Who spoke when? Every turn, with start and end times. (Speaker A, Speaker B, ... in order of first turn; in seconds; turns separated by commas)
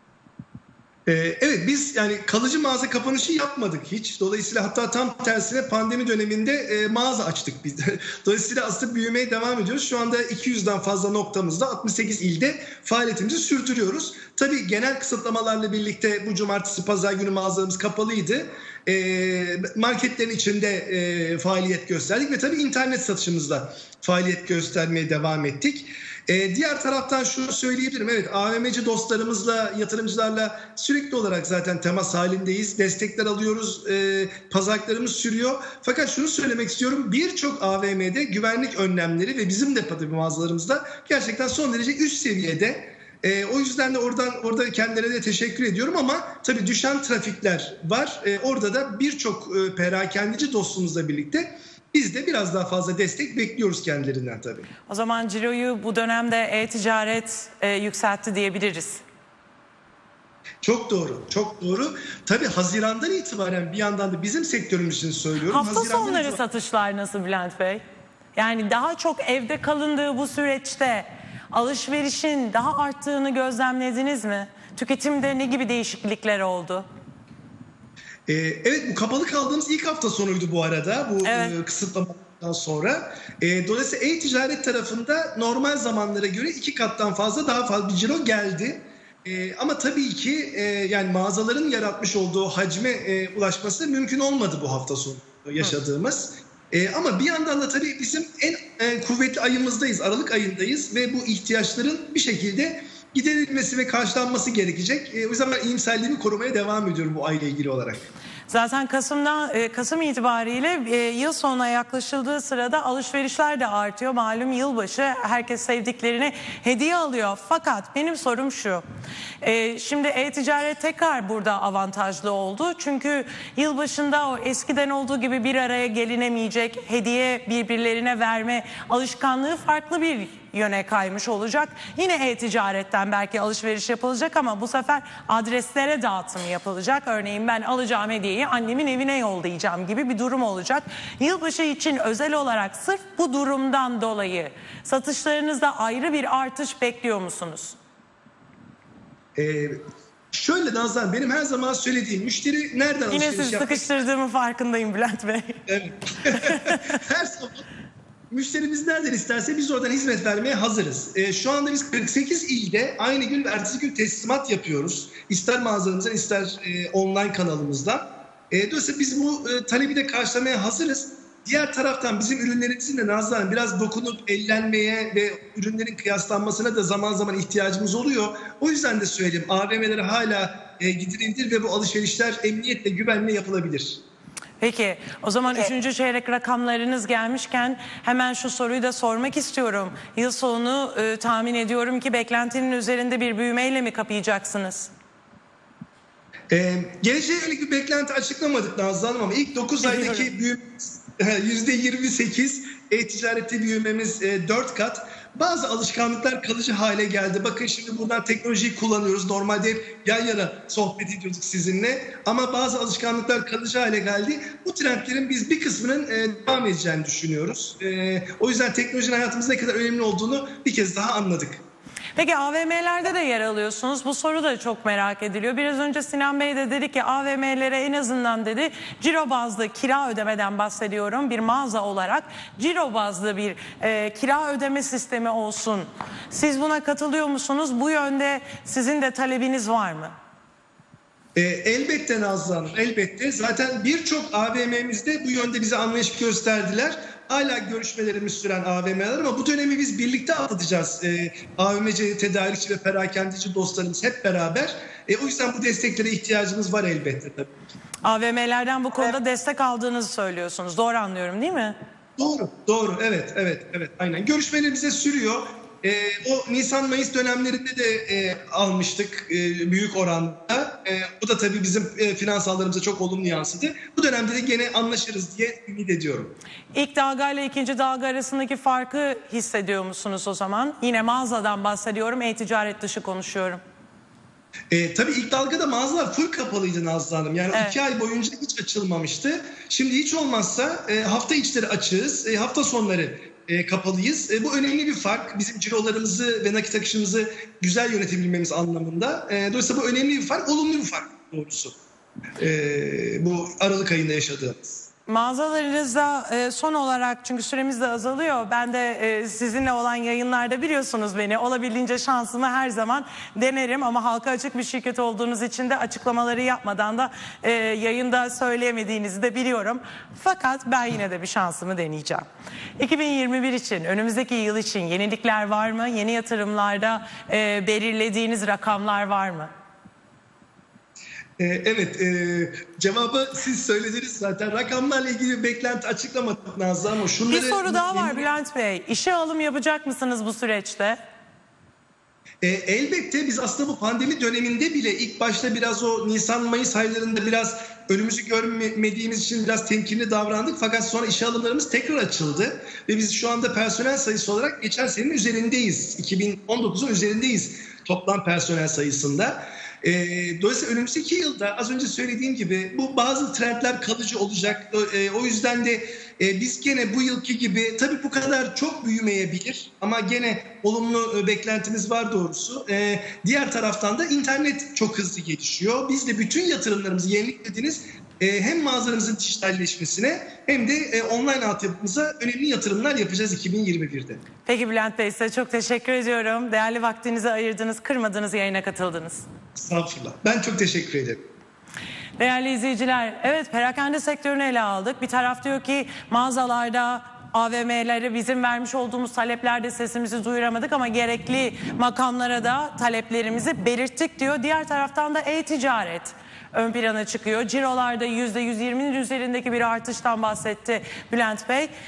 Speaker A: 1.1-54.7, Speaker B: 54.9-59.0, Speaker A: 60.6-66.4, Speaker B: 65.5-67.8, Speaker B: 68.4-76.8, Speaker A: 78.3-108.1, Speaker B: 81.2-81.5, Speaker B: 108.5-118.8, Speaker B: 119.4-147.8, Speaker A: 149.4-149.8, Speaker A: 150.3-153.9, Speaker B: 153.1-155.6, Speaker A: 155.7-157.7, Speaker B: 156.3-156.8, Speaker A: 158.3-184.0, Speaker B: 184.6-194.9, Speaker A: 196.5-221.6, Speaker B: 199.8-200.3, Speaker B: 222.2-240.2, Speaker A: 241.4-257.5, Speaker B: 258.0-261.8, Speaker A: 262.2-276.4, Speaker B: 276.7-283.6, Speaker A: 284.7-301.8, Speaker A: 302.4-304.9, Speaker B: 305.1-322.2, Speaker B: 322.8-329.5, Speaker A: 331.4-338.2, Speaker B: 337.3-341.0, Speaker A: 342.4-384.2, Speaker B: 384.5-389.2, Speaker A: 389.6-391.2, Speaker B: 392.2-411.7